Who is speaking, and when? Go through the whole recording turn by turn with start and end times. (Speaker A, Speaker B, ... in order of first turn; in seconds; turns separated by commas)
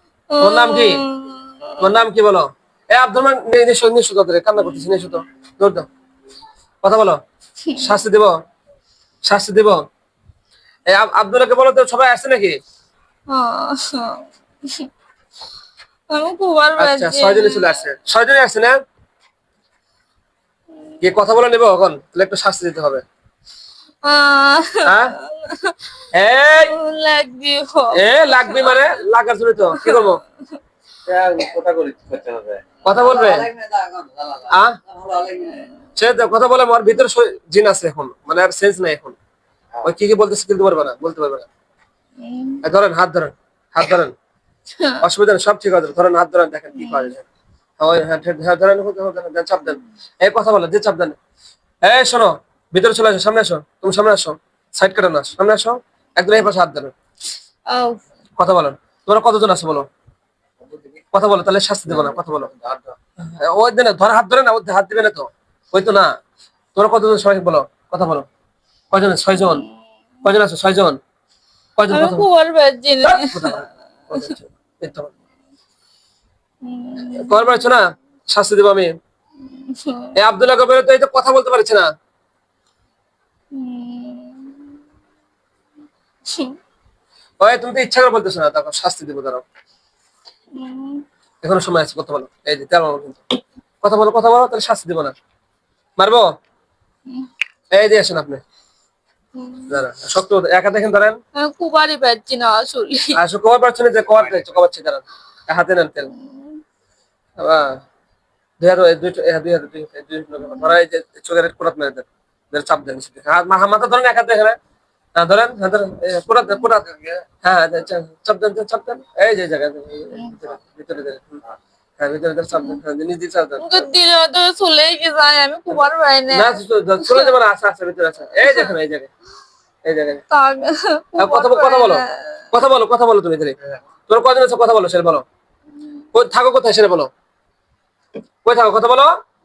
Speaker A: 0.3-1.9, Speaker B: 0.4-1.0, Speaker B: 1.8-5.9, Speaker B: 6.8-7.2, Speaker A: 7.7-7.9, Speaker B: 7.8-8.3, Speaker B: 9.2-9.8, Speaker B: 10.9-12.6, Speaker A: 13.3-14.9, Speaker A: 16.1-17.8, Speaker B: 16.8-18.8, Speaker B: 21.0-23.0, Speaker A: 24.0-25.8, Speaker B: 24.9-25.1, Speaker B: 26.1-26.7, Speaker A: 26.5-28.9, Speaker B: 27.9-30.2, Speaker A: 29.8-30.1, Speaker C: 31.1-35.5, Speaker B: 32.9-33.5, Speaker B: 34.5-34.8, Speaker A: 35.4-35.8, Speaker B: 36.0-39.2, Speaker B: 39.8-41.5, Speaker A: 42.2-42.6, Speaker B: 42.6-44.1, Speaker A: 44.8-45.0, Speaker B: 45.0-47.2, Speaker A: 46.8-47.1, Speaker B: 47.8-51.2, Speaker B: 51.8-56.9, Speaker A: 57.7-58.0, Speaker B: 58.4-59.9, Speaker B: 61.1-62.5, Speaker C: 62.6-62.9, Speaker B: 63.3-66.1, Speaker B: 66.8-68.3, Speaker B: 68.9-69.7, Speaker B: 70.2-71.0, Speaker B: 71.8-72.3, Speaker A: 71.9-73.6, Speaker B: 73.0-75.1, Speaker A: 76.6-77.7, Speaker B: 77.1-78.9, Speaker A: 79.5-80.2, Speaker B: 80.2-81.8, Speaker A: 83.5-84.8, Speaker A: 86.3-86.6, Speaker B: 87.4-89.4, Speaker A: 90.5-91.0, Speaker B: 91.4-93.2, Speaker B: 93.8-95.1, Speaker B: 96.0-96.3, Speaker B: 97.7-98.4, Speaker A: 99.4-99.8, Speaker B: 99.7-101.2, Speaker A: 101.3-103.2, Speaker B: 103.2-106.1, Speaker A: 106.1-106.6, Speaker B: 107.4-107.8, Speaker B: 108.6-114.6, Speaker A: 110.4-110.7, Speaker B: 115.2-116.9, Speaker B: 117.4-121.4, Speaker B: 122.0-123.8, Speaker A: 123.6-127.3, Speaker B: 126.3-129.1, Speaker A: 128.4-128.7, Speaker B: 129.8-130.2, Speaker A: 130.3-132.4, Speaker B: 131.2-133.6, Speaker B: 134.1-135.2, Speaker B: 136.1-137.1, Speaker B: 138.4-139.1